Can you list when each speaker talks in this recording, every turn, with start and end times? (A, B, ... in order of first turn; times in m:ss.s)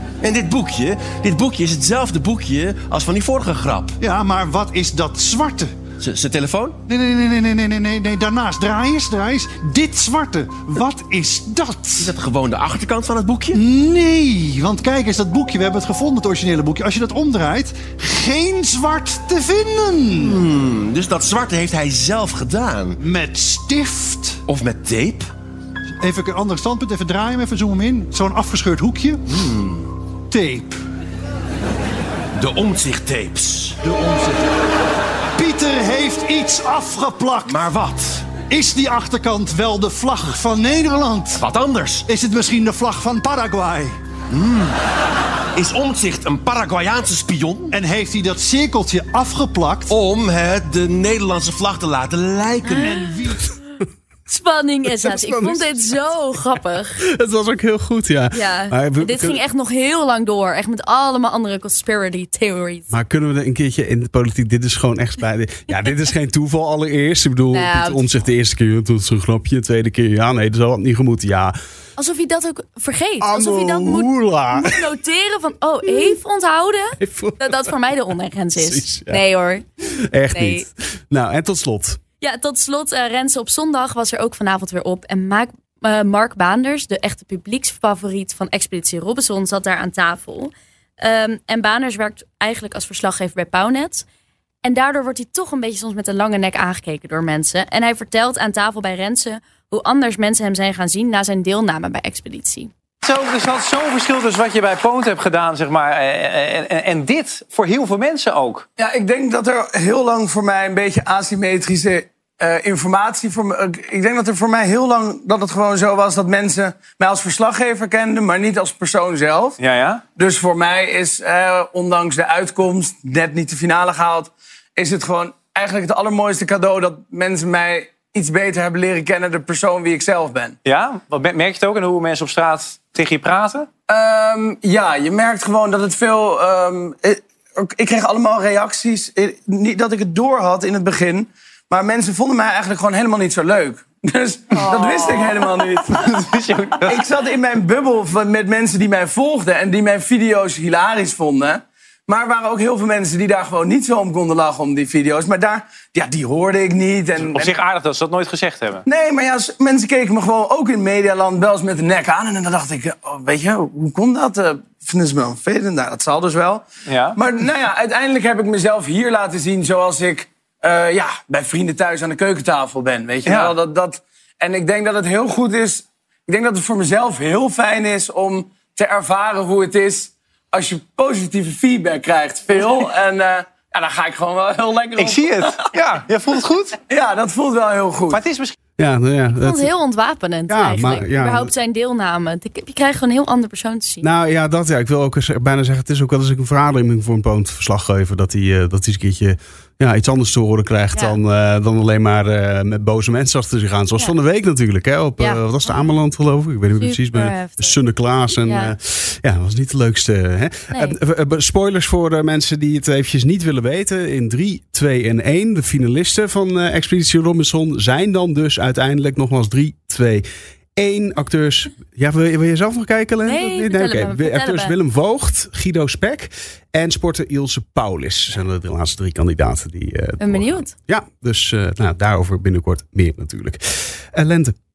0:00.2-0:04.0 A
0:04.0-0:05.7 B
0:06.0-0:06.8 A
0:06.9-0:12.1 B
0:12.0-0:13.6 A
0:13.5-0:20.4 B
0:20.2-0:23.0 A
0:23.0-0:24.4 B
0:24.5-0:25.3 A
0:26.0-0:29.3 B
0:29.3-0:29.9 A
0:30.3-0:30.8 B
0:32.4-0:33.8 A
0:33.8-0:34.5 B
0:35.3-0:37.6 B
0:37.4-0:38.4 A
0:38.5-0:41.4 B
0:41.4-0:42.1 A
0:42.0-0:43.9 B
0:44.3-0:44.8 A
0:45.5-0:47.7 A
0:47.7-0:49.9 B
0:49.9-0:53.0 A
0:52.7-0:53.1 C
0:52.8-0:53.4 B
0:53.3-0:53.5 D
0:54.3-0:57.0 C
0:54.9-0:56.2 D
0:57.0-0:59.4 D
0:58.3-1:02.9 C
1:02.9-1:11.5 D
1:07.5-1:08.3 C
1:12.0-1:19.6 C
1:13.2-1:14.8 D
1:17.0-1:17.7 D
1:18.6-1:19.2 D
1:20.0-1:22.0 D
1:20.3-1:20.7 C
1:22.2-1:34.0 C
1:34.6-1:42.7 C
1:43.0-1:48.6 E
1:48.8-1:59.6 F
1:59.6-2:00.0 E
2:00.2-2:10.6 F
2:10.6-2:13.7 E
2:13.9-2:26.2 F
2:24.5-2:27.0 E
2:26.8-2:37.6 F
2:37.2-2:38.8 E
2:38.8-3:05.7 F
2:46.9-2:47.2 E
2:53.2-2:53.5 E
3:05.0-3:06.8 E
3:06.9-3:08.2 F
3:08.1-3:08.6 E
3:08.8-3:09.7 D
3:09.3-3:14.0 C
3:10.5-3:11.5 D
3:14.0-3:40.2 D
3:25.2-3:25.9 C
3:26.8-3:27.8 C
3:28.4-3:28.7 C
3:40.8-3:54.5 D
3:43.2-3:44.7 C
3:50.2-3:50.7 C